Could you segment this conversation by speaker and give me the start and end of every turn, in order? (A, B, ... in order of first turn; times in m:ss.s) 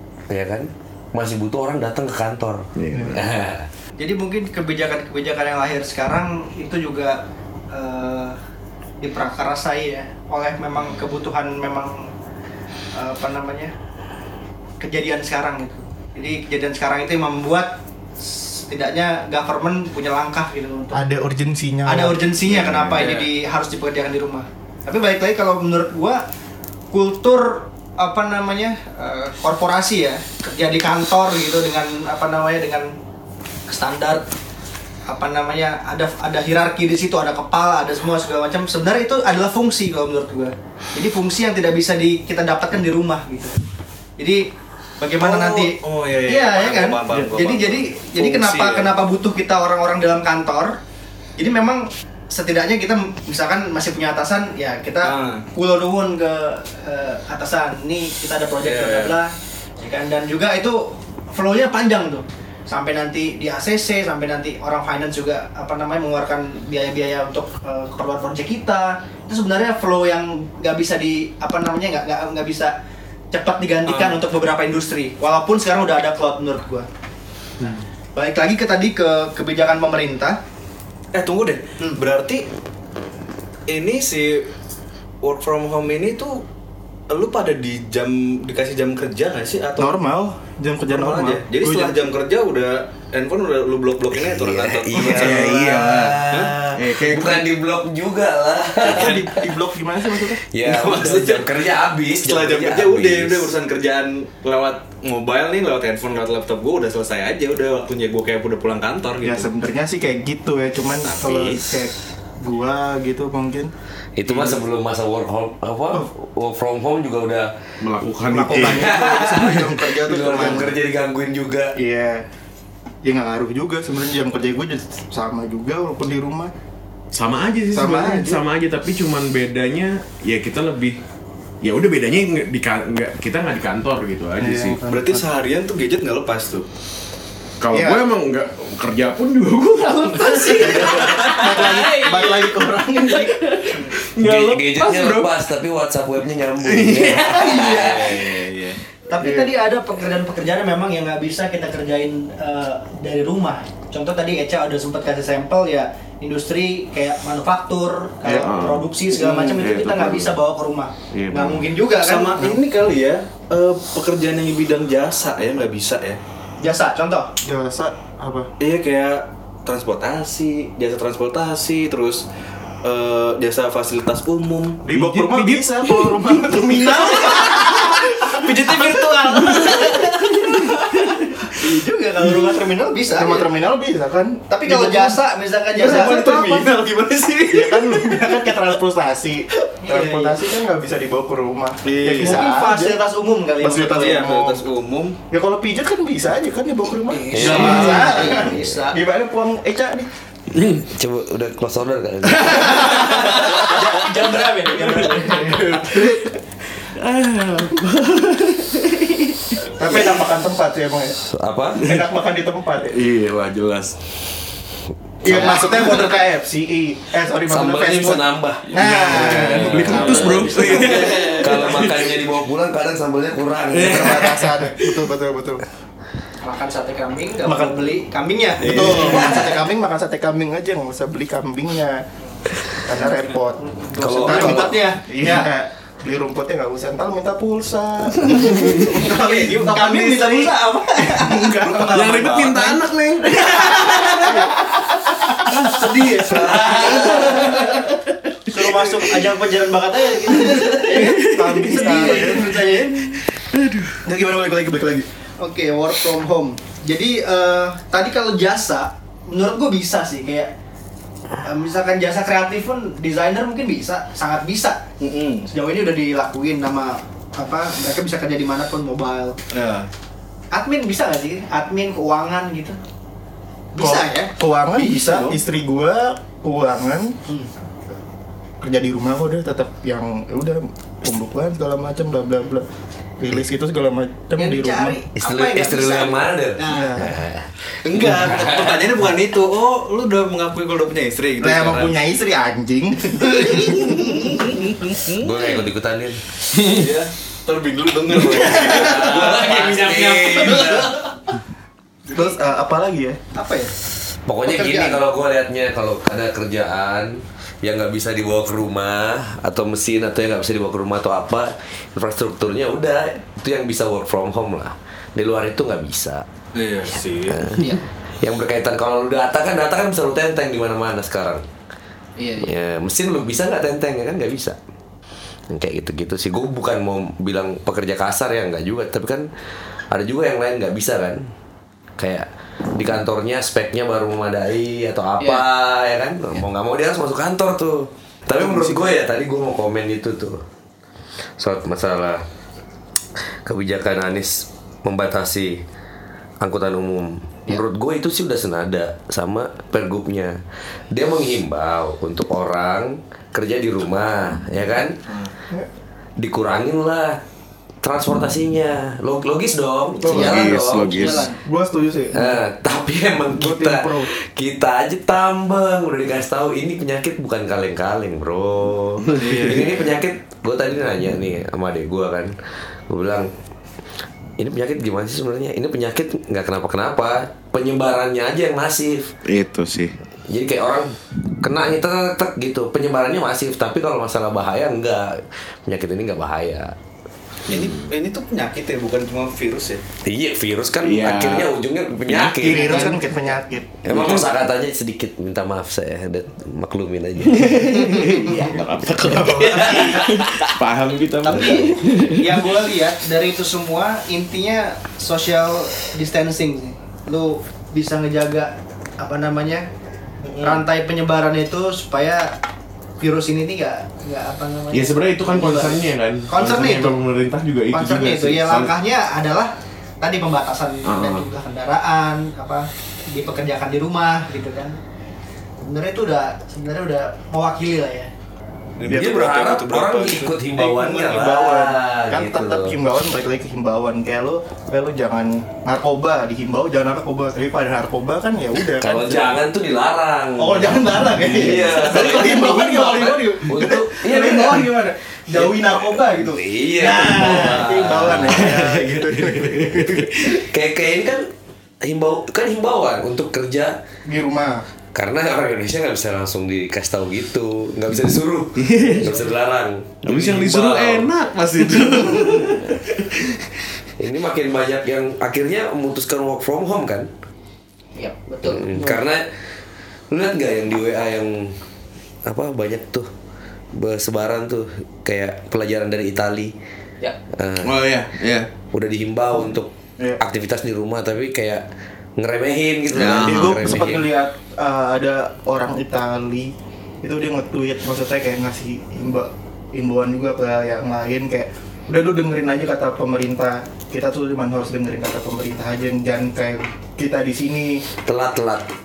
0:00.3-0:03.7 A
0:02.8-0:03.3 B
0:04.0-0:08.4 C
0:09.0-0:12.1 C
0:12.9-0:13.7 C
0:14.8-0:21.0 C
0:20.9-0:22.2 D
0:21.8-0:26.2 C
0:22.5-0:22.9 B
0:22.8-0:23.3 E
0:26.9-0:32.9 C
0:33.7-0:34.3 C
0:35.1-0:43.6 C
0:44.2-0:44.5 C
0:45.0-0:50.8 C
0:45.2-0:48.9 E
0:51.4-1:12.8 C
0:55.0-0:55.4 E
0:58.6-0:59.2 E
1:13.3-1:16.9 C
1:13.8-1:14.2 E
1:18.1-1:20.4 C
1:21.1-1:22.5 E
1:23.7-1:24.5 E
1:25.2-1:26.4 E
1:27.1-1:29.9 E
1:29.8-1:32.0 D
1:30.9-1:36.8 E
1:34.1-1:39.6 A
1:35.0-1:37.4 B
1:38.8-1:40.4 D
1:40.5-1:43.5 A
1:40.6-1:41.5 E
1:42.2-1:49.5 E
1:49.2-1:53.7 D
1:51.2-1:51.5 E
1:54.2-1:57.6 A
1:54.3-1:54.6 E
1:57.8-1:59.0 B
1:58.3-2:00.8 D
1:58.4-2:01.8 A
2:01.8-2:02.2 D
2:03.0-2:06.5 D
2:07.1-2:11.0 B
2:07.7-2:08.4 D
2:11.6-2:14.8 B
2:14.4-2:15.3 D
2:14.8-2:16.7 E
2:17.6-2:20.9 B
2:17.7-2:18.0 D
2:20.2-2:22.3 C
2:20.6-2:23.6 D
2:20.9-2:21.8 E
2:23.2-2:25.3 B
2:24.2-2:28.4 A
2:26.6-2:27.6 B
2:27.4-2:28.8 E
2:29.1-2:42.5 C
2:29.2-2:29.5 D
2:38.2-2:38.9 B
2:39.1-2:39.6 E
2:39.6-2:40.4 B
2:41.1-2:41.8 B
2:41.9-2:46.2 E
2:46.6-2:47.3 C
2:47.4-2:48.5 D
2:48.6-2:52.2 E
2:52.8-2:54.8 E
2:54.8-2:58.8 D
2:54.9-2:56.2 B
2:56.8-3:01.6 E
2:58.6-3:00.8 C
3:01.5-3:03.5 C
3:03.1-3:05.2 D
3:04.5-3:06.4 C
3:05.7-3:06.8 D
3:05.8-3:08.4 E
3:07.5-3:13.0 D
3:09.8-3:10.4 C
3:11.8-3:12.5 E
3:12.2-3:14.3 C
3:13.6-3:14.6 D
3:13.8-3:15.2 E
3:15.3-3:20.1 D
3:17.1-3:19.0 C
3:17.3-3:18.2 A
3:17.4-3:18.2 E
3:20.5-3:20.8 B
3:20.7-3:23.8 A
3:22.5-3:25.7 C
3:25.1-3:26.2 D
3:25.4-3:26.3 B
3:26.8-3:29.7 B
3:29.7-3:31.2 D
3:31.3-3:31.8 A
3:31.8-3:33.0 D
3:32.9-3:34.0 B
3:35.2-3:41.1 D
3:35.2-3:36.1 C
3:35.2-3:35.6 A
3:37.5-3:44.4 A
3:38.7-3:42.1 B
3:39.8-3:41.0 C
3:40.6-3:41.8 E
3:43.7-3:44.9 B
3:43.7-3:45.6 D
3:46.4-3:49.6 C
3:47.4-3:47.9 D
3:48.6-3:52.0 D
3:48.6-3:49.3 E
3:52.8-4:00.5 D
3:53.9-3:55.5 C
3:54.0-3:54.8 A
3:58.7-4:02.7 C
3:58.8-4:00.5 E
4:01.2-4:02.7 E
4:01.5-4:01.9 D
4:01.7-4:04.4 B
4:03.3-4:04.5 C
4:04.3-4:05.3 D
4:05.4-4:07.7 C
4:06.3-4:07.8 D
4:08.5-4:13.2 C
4:10.6-4:12.8 D
4:13.5-4:14.0 B
4:14.0-4:15.0 D
4:15.4-4:20.5 C
4:21.4-4:24.8 C
4:25.0-4:25.5 E
4:25.5-4:29.4 C
4:29.5-4:29.9 E
4:30.5-4:32.8 C
4:33.7-4:34.3 C
4:33.8-4:37.2 D
4:34.8-4:35.4 E
4:38.6-4:42.7 D
4:43.2-4:45.0 D
4:44.4-4:47.0 C
4:45.2-4:48.9 A
4:46.7-4:47.2 D
4:47.8-4:52.0 E
4:51.4-4:54.3 D
4:53.4-4:55.4 E
4:55.1-4:56.2 A
4:56.6-5:01.0 E
4:58.3-5:01.0 A
5:02.1-5:03.2 D
5:03.3-5:03.7 C
5:04.3-5:16.2 A
5:04.4-5:05.0 C
5:16.5-5:17.5 E
5:17.2-5:21.4 A
5:22.2-5:22.5 C
5:22.4-5:24.6 A
5:25.5-5:29.3 A
5:29.9-5:31.2 A
5:32.0-5:40.4 A
5:38.4-5:38.8 D
5:41.4-5:42.2 A
5:43.4-5:45.6 A
5:46.4-5:50.4 A
5:50.9-5:54.9 A
5:56.2-5:57.2 A
5:57.8-6:01.2 A
6:00.0-6:00.4 D
6:00.1-6:01.3 B
6:00.1-6:01.4 C
6:01.3-6:02.4 D
6:02.1-6:12.3 A
6:03.3-6:04.1 D
6:09.1-6:09.9 E
6:12.9-6:13.3 A
6:14.4-6:19.1 A
6:19.3-6:19.9 B
6:20.3-6:26.7 A
6:27.5-6:29.8 E
6:27.5-6:27.8 B
6:30.0-6:33.0 A
6:30.8-6:31.5 B
6:32.1-6:32.9 B
6:32.4-6:33.8 D
6:33.8-6:38.0 A
6:33.9-6:34.3 B
6:37.3-6:42.4 B
6:37.9-6:38.5 C
6:39.2-6:40.0 E
6:39.4-6:40.2 C
6:41.2-6:49.7 C
6:50.2-6:50.6 E
6:50.4-6:52.4 C
6:53.0-6:57.0 C
6:54.7-6:58.7 B
6:57.7-7:04.8 C
7:00.8-7:01.3 B
7:05.6-7:08.1 C
7:08.8-7:10.3 E
7:08.9-7:12.7 A
7:10.5-7:19.3 D
7:18.8-7:28.5 A
7:20.4-7:30.1 D
7:26.8-7:27.3 C
7:26.9-7:30.3 E
7:30.3-7:31.3 A
7:31.8-7:33.8 A
7:34.0-7:34.6 D
7:34.9-7:40.0 A
7:38.6-7:39.0 B
7:40.0-7:42.5 B
7:40.1-7:42.7 E
7:44.0-7:47.1 A
7:48.0-7:48.9 C
7:48.4-7:49.3 A
7:50.1-7:51.6 A
7:52.2-7:53.1 A
7:53.7-7:56.5 A
7:57.3-7:57.8 A
7:57.6-7:58.4 E
7:57.6-7:58.5 B
7:58.7-8:01.6 A
8:02.2-8:04.1 A
8:02.9-8:17.8 D
8:02.9-8:03.6 B
8:18.0-8:18.7 A